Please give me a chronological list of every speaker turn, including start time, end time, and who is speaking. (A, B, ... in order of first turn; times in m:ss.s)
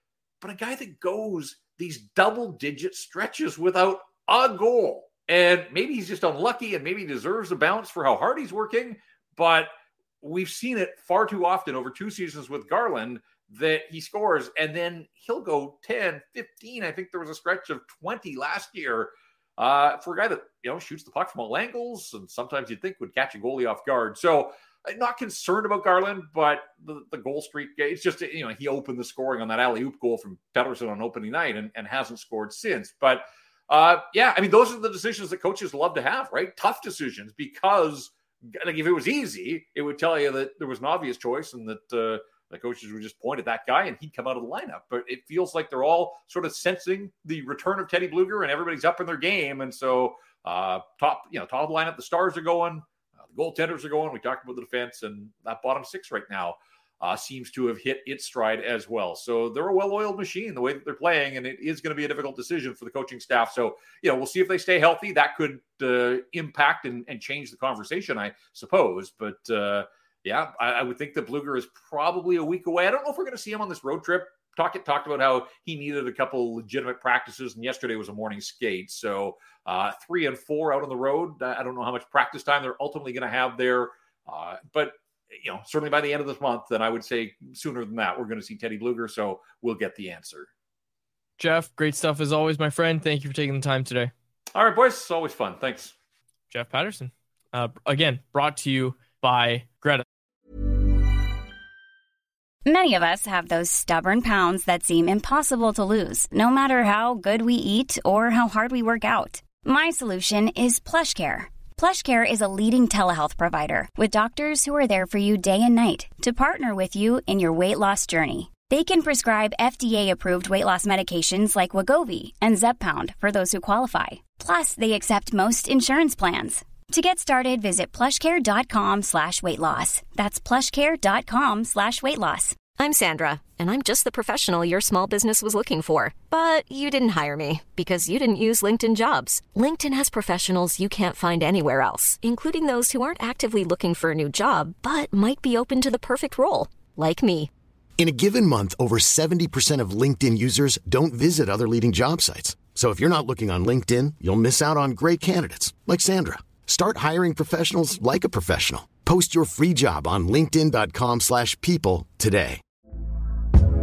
0:00.4-1:30.5 A
1:31.4-1:34.1 B
1:34.6-1:35.9 A
1:36.5-1:40.0 B
1:42.6-2:12.6 C
2:12.7-2:27.5 D
2:28.0-2:42.6 E